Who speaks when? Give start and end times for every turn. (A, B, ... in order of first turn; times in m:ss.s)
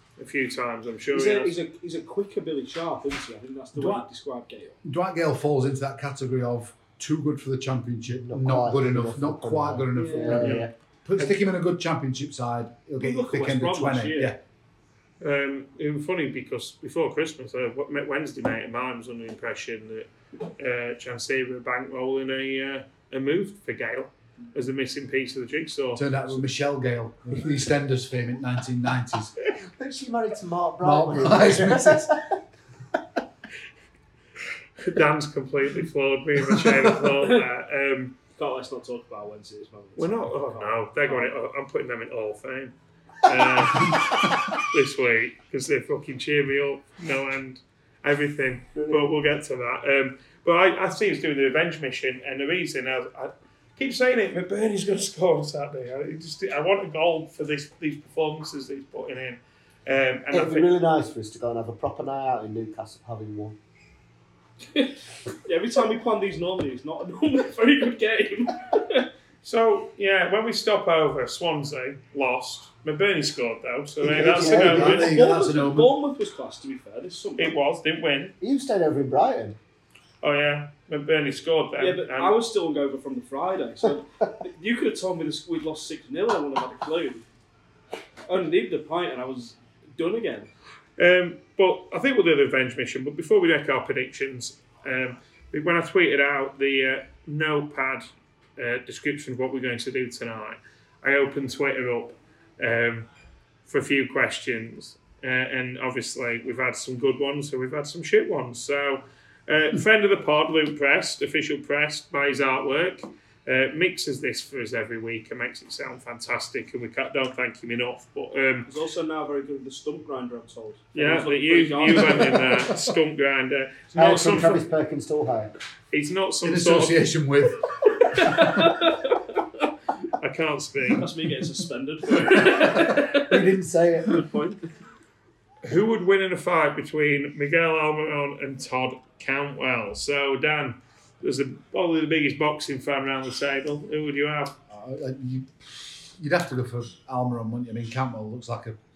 0:00.2-0:01.6 A
0:01.1-0:04.8 B
0:03.7-0:04.1 C
0:04.8-0:14.4 C
0:08.2-0:10.7 D
0:09.9-0:10.6 B
0:10.4-0:10.7 A
0:13.0-0:14.3 B
0:15.2-0:26.2 A
0:25.9-0:29.3 C
0:29.8-0:32.4 D
0:30.8-0:32.1 C
0:34.8-0:38.2 A
0:36.5-0:37.0 C
0:38.4-0:41.3 B
0:40.0-1:00.7 A
1:00.3-1:03.6 D
1:04.7-1:09.1 B
1:09.4-1:15.2 A
1:14.0-1:15.0 D
1:14.2-1:17.6 B
1:14.4-1:15.9 C
1:17.4-1:18.3 A
1:18.4-1:19.6 D
1:20.2-1:22.4 A
1:21.8-1:27.3 B
1:28.3-1:30.5 B
1:31.0-1:38.0 A
1:38.6-1:43.1 A
1:43.7-1:58.7 A
1:58.7-2:02.5 B
2:00.9-2:04.7 A
2:02.1-2:03.0 C
2:03.9-2:05.5 D
2:05.9-2:07.0 A
2:06.4-2:08.7 C
2:08.1-2:09.3 B
2:10.2-2:11.1 A
2:10.9-2:13.4 B
2:13.0-2:14.2 D
2:14.1-2:14.6 B
2:15.6-2:24.5 A
2:24.7-2:28.8 C